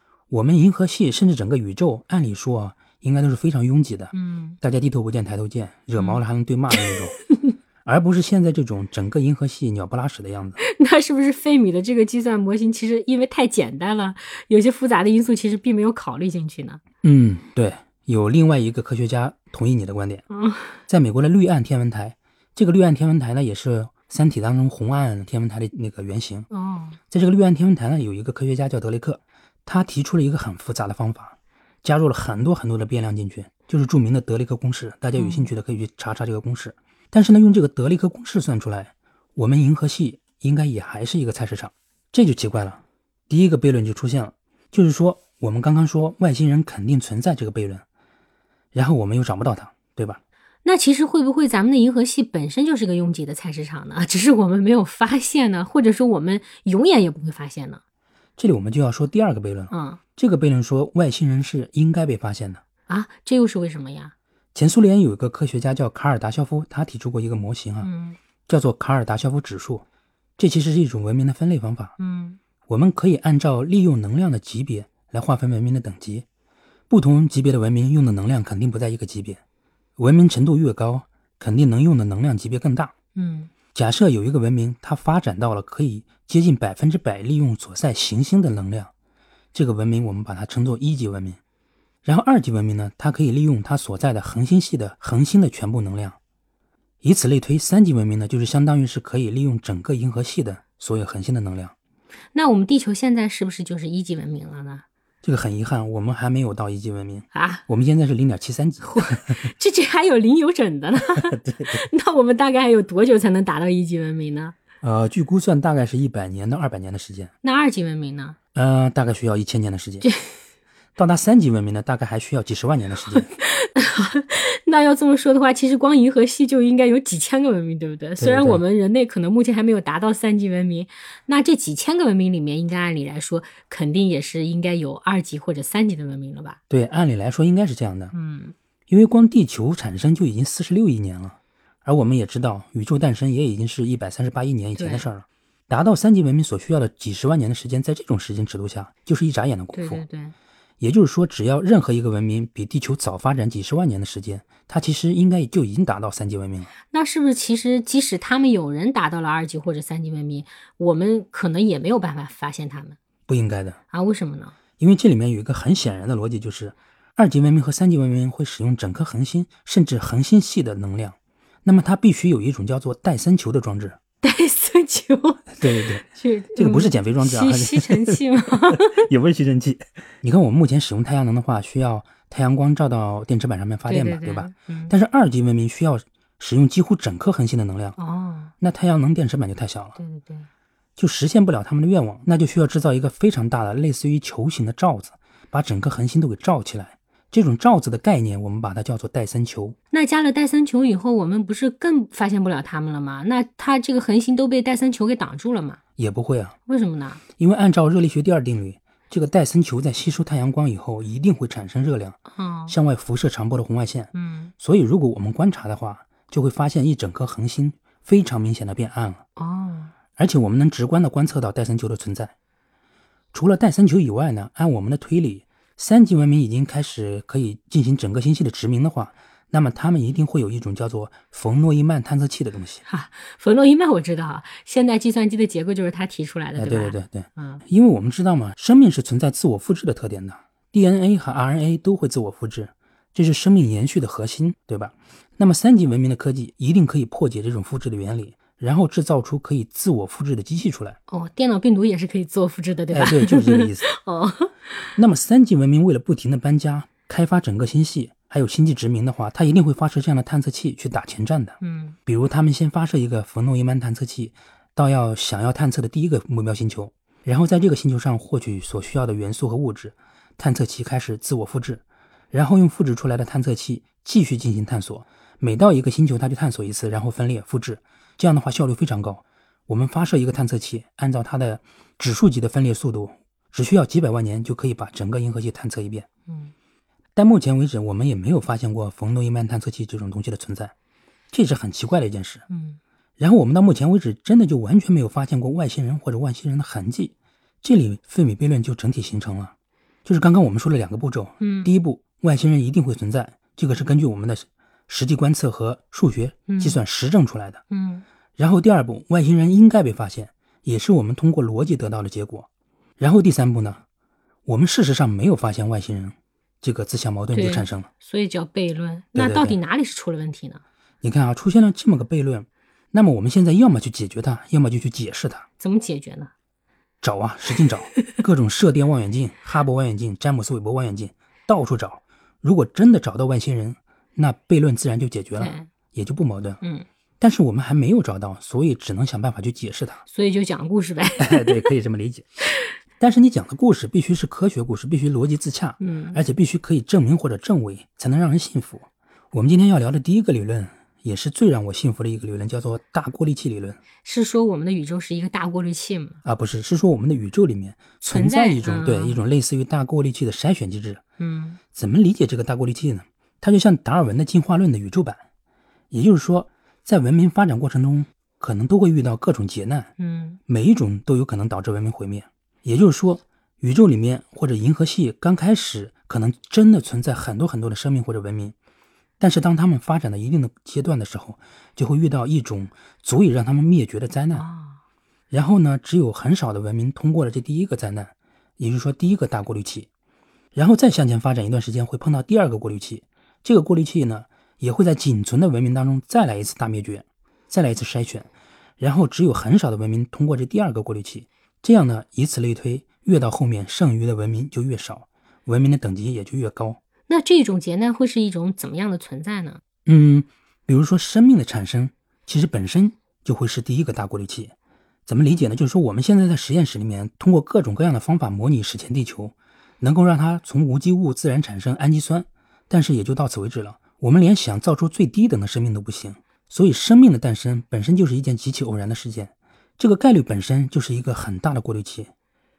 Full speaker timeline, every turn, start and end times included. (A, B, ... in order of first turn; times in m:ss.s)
0:00.3-0:07.2 A
0:04.1-0:04.6 B
0:07.8-0:10.6 A
0:10.6-0:16.8 B
0:17.0-0:20.2 A
0:20.3-0:20.8 B
0:20.9-0:26.5 A
0:26.5-0:27.0 B
0:27.1-0:47.8 A
0:35.1-0:35.5 B
0:48.7-0:50.2 A
0:50.6-0:57.8 B
0:58.4-1:02.6 A
0:59.7-1:00.0 B
1:02.9-1:04.1 B
1:04.5-1:07.9 A
1:07.8-1:08.2 B
1:08.5-1:09.8 A
1:10.4-1:11.9 A
1:12.0-1:12.4 B
1:12.7-1:16.2 A
1:16.9-1:19.4 A
1:20.0-1:22.9 A
1:23.1-1:23.5 B
1:23.7-1:28.9 A
1:29.5-1:31.4 A
1:32.0-1:36.2 A
1:37.0-1:41.7 A
1:42.3-1:44.8 B
1:45.2-1:49.5 A
1:47.3-1:47.6 B
1:48.8-1:54.5 B
1:51.1-1:51.8 A
1:54.8-1:57.3 A
1:57.4-1:58.4 B
1:58.5-2:00.0 A
2:00.0-2:00.4 B
2:01.0-2:03.3 A
2:03.2-2:16.6 B
2:08.2-2:08.6 A
2:16.7-2:18.1 A
2:18.1-2:18.5 B
2:18.9-2:30.0 A
2:24.8-2:25.1 B
2:29.7-2:30.3 B
2:30.8-2:36.7 A
2:36.8-2:43.0 B
2:43.3-2:43.8 A
2:43.9-2:44.5 B
2:44.8-2:54.0 A
2:54.2-2:59.0 B
2:55.6-3:08.0 A
3:03.9-3:04.9 B
3:08.0-3:08.5 B
3:08.6-3:10.0 A
3:10.0-3:10.5 B
3:11.0-3:19.8 A
3:19.9-3:25.8 B
3:26.0-3:26.5 A
3:26.7-3:27.2 B
3:27.4-3:39.2 A
3:32.4-3:32.7 B
3:34.1-3:34.5 B
3:39.4-3:39.9 B
3:40.2-3:42.3 A
3:43.3-3:52.8 A
3:52.8-3:57.6 B
3:56.6-4:11.0 A
4:11.1-4:14.9 B
4:12.9-4:13.9 A
4:15.0-4:46.1 A
4:21.6-4:22.0 B
4:46.3-4:46.5 B
4:47.2-4:50.7 A
4:51.3-4:52.4 A
4:52.5-4:52.8 B
4:53.2-4:59.5 A
5:00.0-5:07.6 A
5:01.4-5:01.7 B
5:06.5-5:06.8 B
5:07.7-5:08.0 B
5:08.4-5:12.5 A
5:13.0-5:13.8 A
5:14.4-5:17.9 A
5:17.3-5:20.6 B
5:19.1-5:19.6 A
5:21.0-5:25.4 A
5:25.6-5:26.3 B
5:27.0-5:36.6 A
5:35.4-5:35.7 B
5:37.2-5:40.0 A
5:40.0-5:41.7 B
5:41.2-5:42.3 A
5:43.0-5:53.8 A
5:45.8-5:46.2 B
5:54.0-5:56.2 B
5:56.2-6:01.0 A
5:58.1-5:59.2 B
6:01.2-6:01.6 B
6:01.7-6:05.2 A
6:05.9-6:09.9 A
6:10.0-6:10.4 B
6:10.5-6:18.5 A
6:19.2-6:24.5 A
6:24.3-6:24.8 B
6:25.3-6:29.9 A
6:30.5-6:38.3 A
6:38.8-6:46.8 A
6:47.1-6:49.6 B
6:49.8-6:54.5 A
6:55.1-7:12.1 A